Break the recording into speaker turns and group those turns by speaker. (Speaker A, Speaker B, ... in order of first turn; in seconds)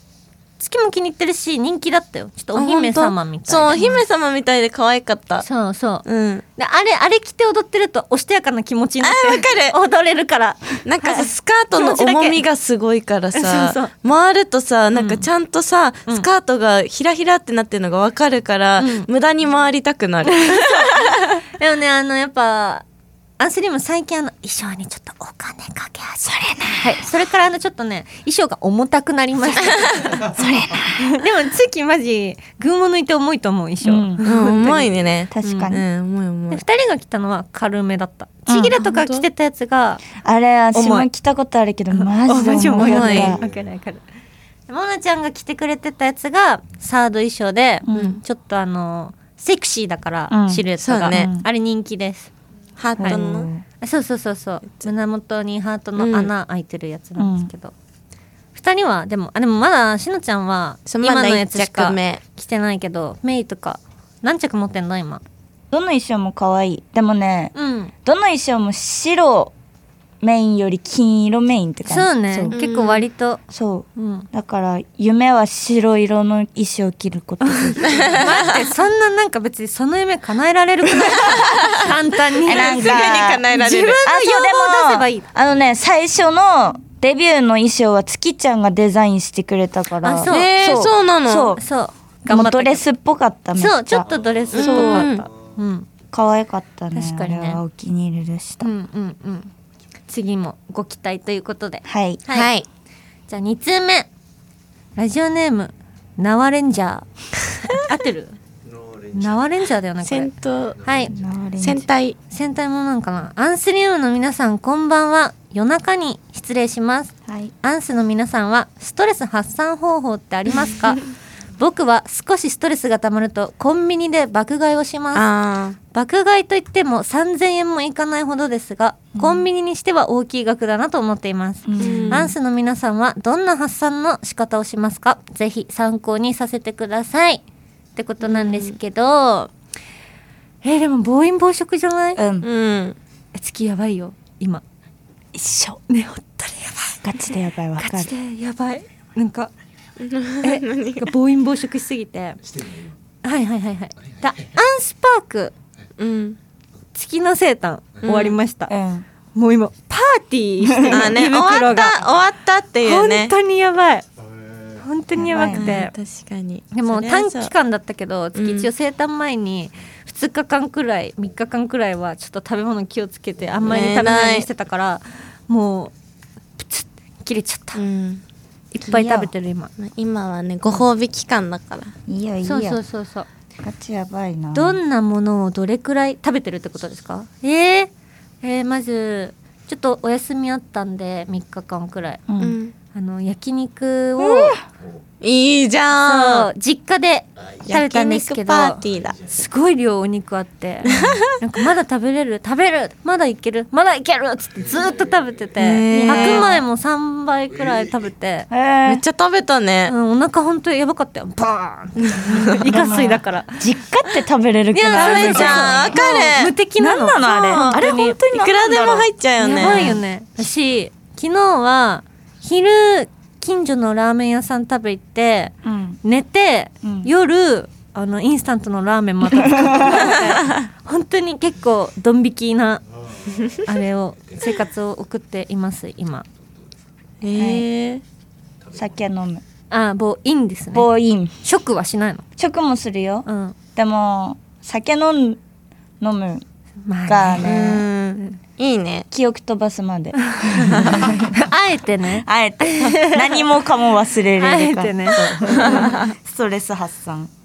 Speaker A: 0.6-4.0, 5.4-6.0, 6.5-12.4, 13.3-13.9, 14.9-15.3, 18.8-19.1, 20.2-22.8, 23.4-30.3, 31.0-34.9, 35.4-35.7, 36.5-40.0, 40.7-41.1, 41.9-44.0, 44.7-52.3, 53.8-57.7, 58.5-65.2, 67.5-67.9, 71.9-73.4, 74.0-74.3, 78.2-85.3, 90.0-90.6, 91.6-92.8, 93.5-95.9, 96.9-97.6, 98.6-99.5, 100.1-102.5, 103.3-104.1, 105.0-107.0, 107.7-108.4, 109.1-110.3, 110.8-111.1, 112.3-121.0, 121.6-125.2, 125.9-137.4, 137.9-139.5, 140.6-142.2, 143.3-144.6, 145.9-149.5, 150.4-152.4, 153.2-155.5, 156.9-158.7, 159.3-162.0, 162.8-164.0, 164.7-165.9, 166.7-175.9, 176.6-177.8, 178.7-179.7, 182.4-183.3, 184.5-187.9, 188.4-192.2, 192.9-194.6, 196.0-208.5, 209.8-214.2, 214.7-218.2, 219.4-232.8, 233.6-236.2, 239.7-240.9, 241.4-242.2, 243.2-243.5, 246.8-247.5, 250.3-253.5, 254.4-256.1
Speaker B: 2.5-5.5, 6.0-6.4, 9.0-9.8, 10.8-21.2, 34.2-36.6, 38.8-39.2, 42.7-43.4, 50.8-51.3, 52.8-53.5, 56.0-56.3, 60.9-62.2, 72.5-73.0, 77.8-78.5, 82.5-84.0, 90.3-91.6, 94.5-95.2, 102.3-102.7, 110.0-110.8, 111.6-112.2, 125.1-125.8, 131.8-132.3, 138.3-138.7, 142.4-142.9, 150.0-151.1, 156.0-156.4, 158.0-158.4, 160.9-163.3, 165.5-167.5, 168.3-168.7, 173.7-174.5, 177.8-178.2, 179.8-181.9, 192.4-192.7, 195.2-196.5, 197.7-199.2, 200.9-201.3, 205.6-206.4, 208.8-209.9, 212.0-212.5, 214.9-216.5, 217.4-220.0, 229.9-230.2, 237.2-238.0, 247.4-249.1, 255.3-256.0
Speaker C: 26.3-27.0, 30.2-31.1, 33.8-34.2, 35.3-35.8, 38.5-38.7, 40.2-43.4, 47.9-48.2, 50.3-51.5, 53.0-53.6, 57.2-57.5, 65.7-69.5, 70.2-72.5, 73.5-78.5, 82.4-83.5, 84.0-91.6, 92.3-94.0, 94.6-95.1, 96.1-98.7, 101.8-102.2, 111.1-111.8, 117.3-117.5, 129.2-129.4, 131.7-132.3, 142.2-142.5, 145.3-145.8, 147.0-148.1, 158.7-159.0, 160.7-161.0, 165.2-165.8, 178.8-179.3, 182.1-182.8, 183.6-184.8, 192.3-192.6, 194.2-194.6, 205.9-206.6, 208.5-209.0, 212.6-216.0, 216.8-220.0, 225.6-226.0, 226.8-227.1, 229.3-230.2, 237.3-237.6, 238.8-239.4, 240.7-241.3, 242.4-245.4, 246.0-246.4, 247.1-247.8, 249.1-251.4, 252.1-257.3